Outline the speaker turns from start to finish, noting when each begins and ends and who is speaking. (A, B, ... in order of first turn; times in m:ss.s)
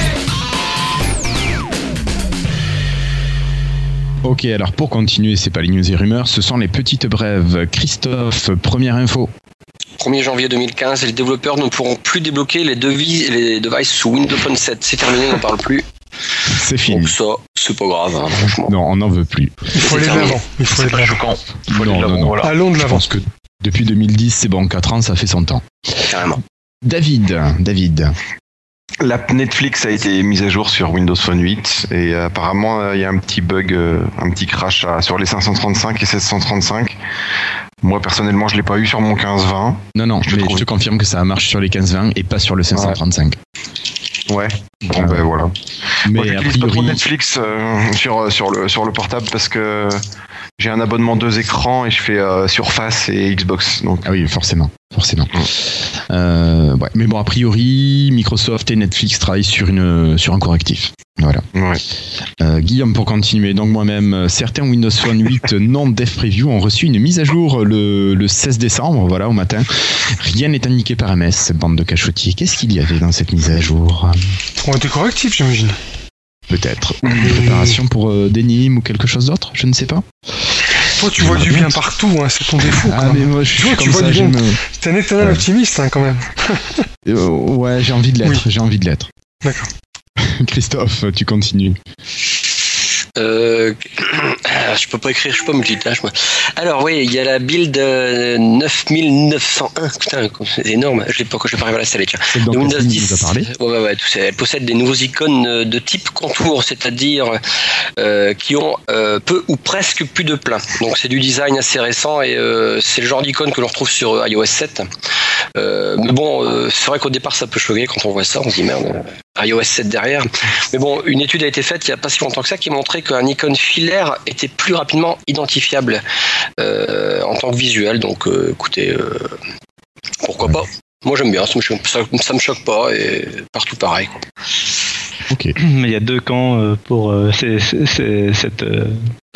0:04.2-0:09.3 A
0:10.0-0:15.9 B
0:16.5-0:17.1 A
0:16.9-0:18.8 B
0:18.6-0:19.7 A
0:19.7-0:21.2 C
0:19.8-0:20.4 B
0:19.9-0:22.6 D
0:21.7-0:28.2 A
0:22.4-0:23.1 C
0:26.1-0:26.4 B
0:29.0-0:37.0 E
0:37.8-0:40.7 E
0:40.0-0:43.4 A
0:44.3-0:50.0 E
0:44.9-0:45.3 A
0:46.0-0:47.0 A
0:50.6-0:54.1 E
0:54.0-1:01.4 A
1:01.5-1:01.8 E
1:02.4-1:14.3 A
1:14.6-1:15.8 C
1:16.5-1:20.0 A
1:17.1-1:17.8 C
1:21.0-1:26.8 C
1:21.1-1:21.8 A
1:22.6-1:24.6 A
1:27.0-1:29.1 A
1:29.4-1:29.7 C
1:30.2-1:31.8 A
1:33.2-1:47.4 B
1:42.3-1:43.5 A
1:48.0-1:54.9 B
1:55.6-2:06.0 B
2:06.6-2:09.4 B
2:10.2-2:14.3 B
2:15.3-2:15.6 A
2:15.6-2:19.0 F